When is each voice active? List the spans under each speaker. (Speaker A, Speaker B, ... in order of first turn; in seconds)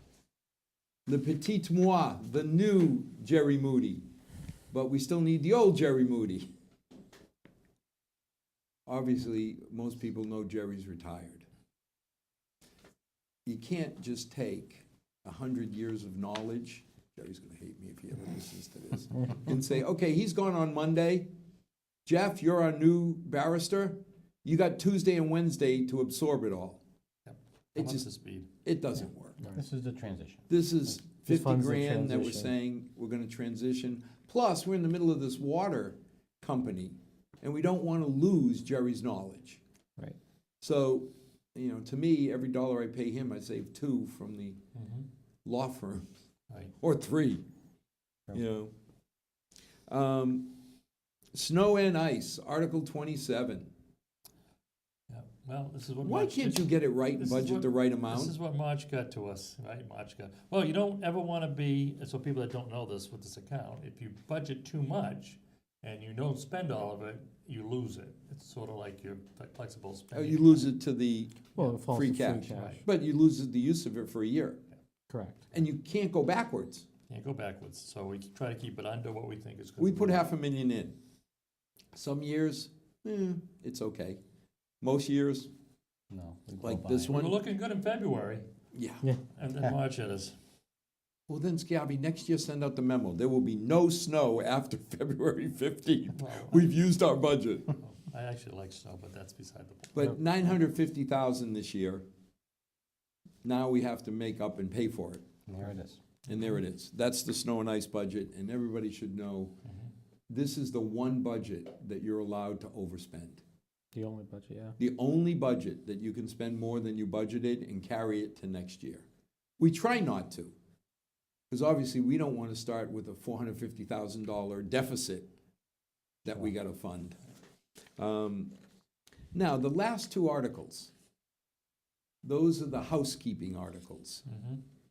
Speaker A: 1.1-4.0, 4.7-6.5, 8.9-11.5, 13.5-21.3, 22.1-26.8, 27.8-28.1, 28.6-29.4, 30.5-39.6, 40.6-44.6, 45.5-46.0, 46.8-47.4, 48.3-48.7, 49.9-50.5, 51.3-53.7, 56.0-58.4, 70.1-74.6, 75.5-76.9, 79.8-81.0, 81.9-84.2, 84.8-85.5, 86.6-87.4, 88.7-89.0, 91.3-97.8, 99.9-102.0, 103.4-105.3, 106.3-109.5, 110.3-113.4, 114.8-119.0, 119.6-120.5, 121.5-125.3, 126.2-127.2, 128.0-128.5, 129.3-130.9, 132.2-134.2
Speaker B: 27.3-28.5, 44.8-45.1, 55.1-70.7, 72.5-72.8, 77.1-80.3, 87.1-88.5, 89.4-90.3, 96.2-96.8, 97.8-100.2, 134.3-134.6
Speaker C: 29.4-30.4, 86.1-87.3, 105.5-106.0
Speaker D: 29.4-29.7, 31.2-32.5, 71.6-72.8, 75.1-75.5, 113.9-114.8